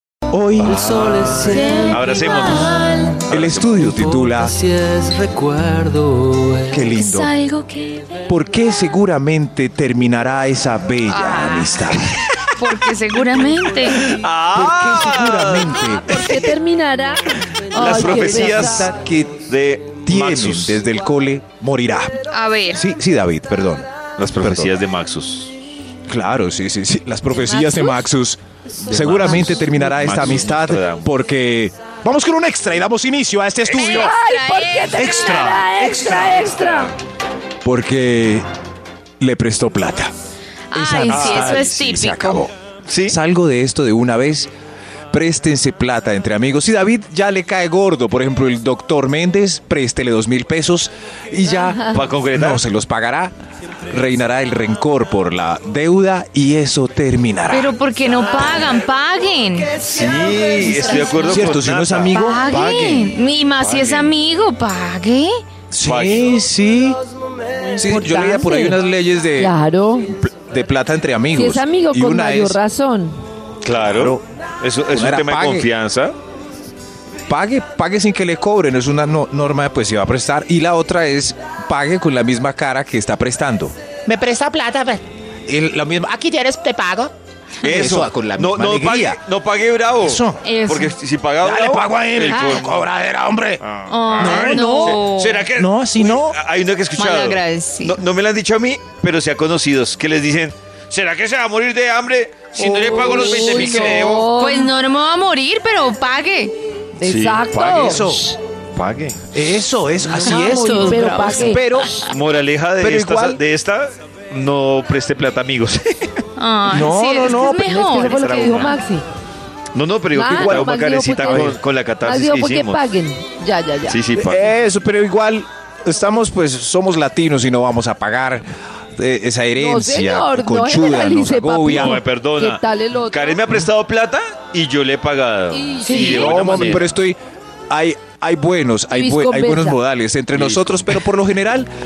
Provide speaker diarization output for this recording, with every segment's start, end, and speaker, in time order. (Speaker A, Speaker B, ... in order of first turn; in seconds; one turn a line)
Speaker A: 0.3-0.9
Speaker B: 0.6-3.9
Speaker C: 0.8-2.2
Speaker D: 1.5-3.2
Speaker C: 2.9-3.2
Speaker A: 3.3-4.6
Speaker C: 4.0-6.7
Speaker A: 6.7-7.3
Speaker D: 6.9-8.1
Speaker A: 8.3-12.1
Speaker D: 11.1-11.8
Speaker B: 11.9-12.2
Speaker D: 12.6-14.1
Speaker B: 13.9-16.5
Speaker A: 14.5-16.2
Speaker E: 16.1-18.9
Speaker B: 17.7-18.9
Speaker A: 17.8-19.4
Speaker B: 19.4-20.9
Speaker A: 20.1-22.1
Speaker D: 22.3-22.8
Speaker A: 22.7-24.7
Speaker B: 24.2-25.5
Speaker A: 26.1-34.1
Speaker B: 28.7-31.1
Speaker D: 33.7-35.0
Speaker E: 33.8-36.9
Speaker A: 34.9-36.9
Speaker A: 37.6-38.5
Speaker A: 39.2-40.1
Speaker D: 40.7-42.5
Speaker A: 40.7-42.5
Speaker B: 41.1-41.7
Speaker B: 42.9-43.2
Speaker A: 43.0-44.5
Speaker A: 45.1-53.3
Speaker B: 51.8-52.6
Speaker A: 53.9-57.7
Speaker D: 57.5-59.9
Speaker B: 59.7-62.5
Speaker D: 60.9-61.6
Speaker A: 61.2-63.1
Speaker D: 62.1-65.4
Speaker B: 63.6-64.2
Speaker A: 65.7-67.0
Speaker B: 65.8-66.3
Speaker E: 67.7-68.8
Speaker A: 67.8-69.6
Speaker E: 69.4-70.1
Speaker A: 70.2-72.6
Speaker E: 71.3-73.1
Speaker B: 73.6-76.1
Speaker A: 73.8-74.2
Speaker A: 74.9-75.7
Speaker A: 77.3-83.7
Speaker F: 84.1-85.0
Speaker A: 85.5-86.2
Speaker F: 86.1-87.1
Speaker B: 87.6-92.9
Speaker A: 87.6-89.2
Speaker A: 90.0-90.4
Speaker D: 90.4-90.9
Speaker A: 91.4-93.6
Speaker B: 93.6-104.3
Speaker D: 93.9-95.5
Speaker A: 94.2-95.0
Speaker A: 95.5-96.4
Speaker D: 96.9-98.0
Speaker A: 102.5-104.2
Speaker E: 103.1-104.7
Speaker D: 104.4-106.5
Speaker E: 107.0-108.4
Speaker B: 107.0-108.1
Speaker A: 107.6-108.3
Speaker B: 108.7-109.2
Speaker A: 109.3-111.9
Speaker D: 110.0-111.9
Speaker E: 110.3-112.0
Speaker B: 112.1-116.2
Speaker A: 112.8-113.4
Speaker D: 116.4-118.7
Speaker A: 116.7-117.7
Speaker E: 117.5-119.0
Speaker B: 117.9-118.8
Speaker B: 119.7-122.8
Speaker E: 120.1-124.0
Speaker A: 120.3-121.6
Speaker B: 123.8-124.5
Speaker A: 124.2-132.0
Speaker E: 129.6-133.4
Speaker B: 131.7-136.9
Speaker E: 135.5-136.3
Speaker A: 135.8-137.2
Speaker A: 137.7-141.7
Speaker E: 138.9-139.8
Speaker B: 140.3-140.9